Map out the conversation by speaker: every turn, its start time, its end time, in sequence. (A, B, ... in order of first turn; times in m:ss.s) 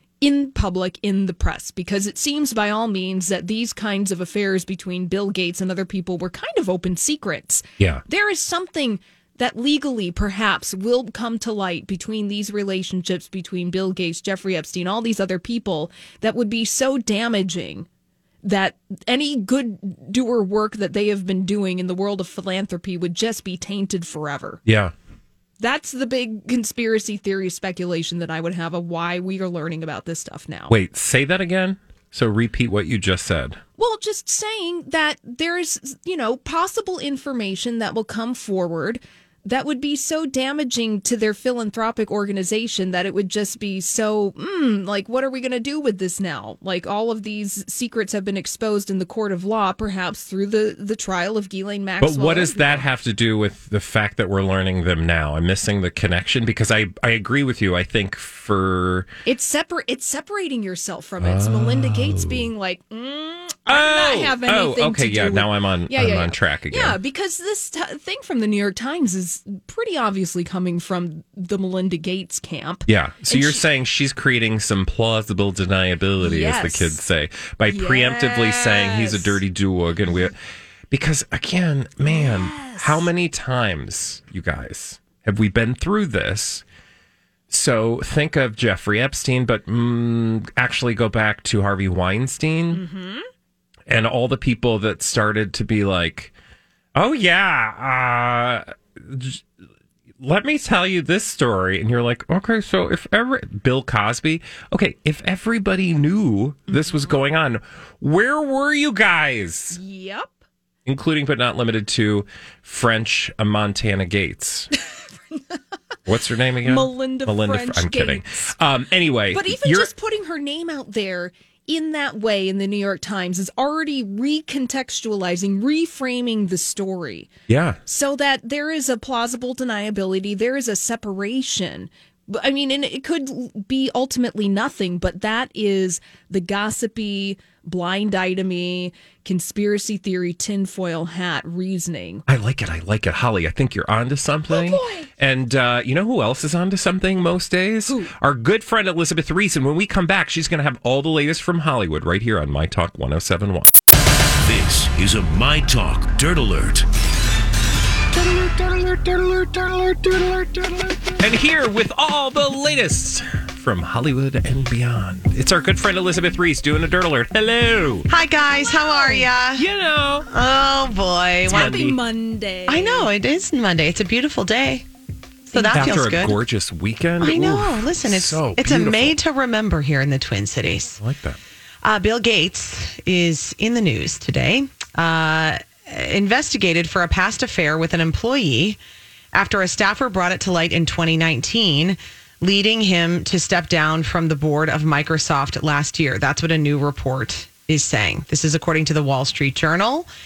0:00.2-0:17.9 A
0:18.4-0:24.6 A
0:24.6-0:24.9 B
0:25.6-0:30.7 A
0:30.7-0:33.6 B
0:33.8-0:52.8 A
0:52.0-0:59.1 B
0:59.2-1:13.6 A
1:01.2-1:02.5 B
1:03.7-1:07.0 B
1:12.9-1:20.3 B
1:16.2-1:17.0 A
1:17.7-1:19.4 A
1:20.9-1:26.6 B
1:22.0-1:23.0 A
1:27.5-1:32.8 B
1:32.7-1:33.2 A
1:33.9-1:36.3 B
1:36.9-1:39.4 B
1:40.2-1:49.8 B
1:46.7-1:47.1 A
1:49.7-1:50.4 A
1:50.8-1:54.7 B
1:54.9-1:55.6 A
1:56.0-1:59.9 B
1:56.6-1:58.5 A
1:59.3-2:07.3 A
2:07.5-2:07.8 B
2:07.8-2:22.2 A
2:22.3-2:33.8 B
2:24.5-2:25.1 A
2:34.4-2:36.8 C
2:38.1-2:48.1 B
2:48.1-2:49.6 D
2:48.7-2:49.2 A
2:49.6-2:50.3 B
2:50.3-2:51.8 D
2:51.4-2:52.0 B
2:51.5-2:53.1 A
2:52.7-2:54.9 D
2:55.5-2:56.4 D
2:55.6-2:59.2 B
2:57.2-3:01.0 D
3:01.0-3:01.4 B
3:01.8-3:08.8 D
3:09.3-3:20.1 D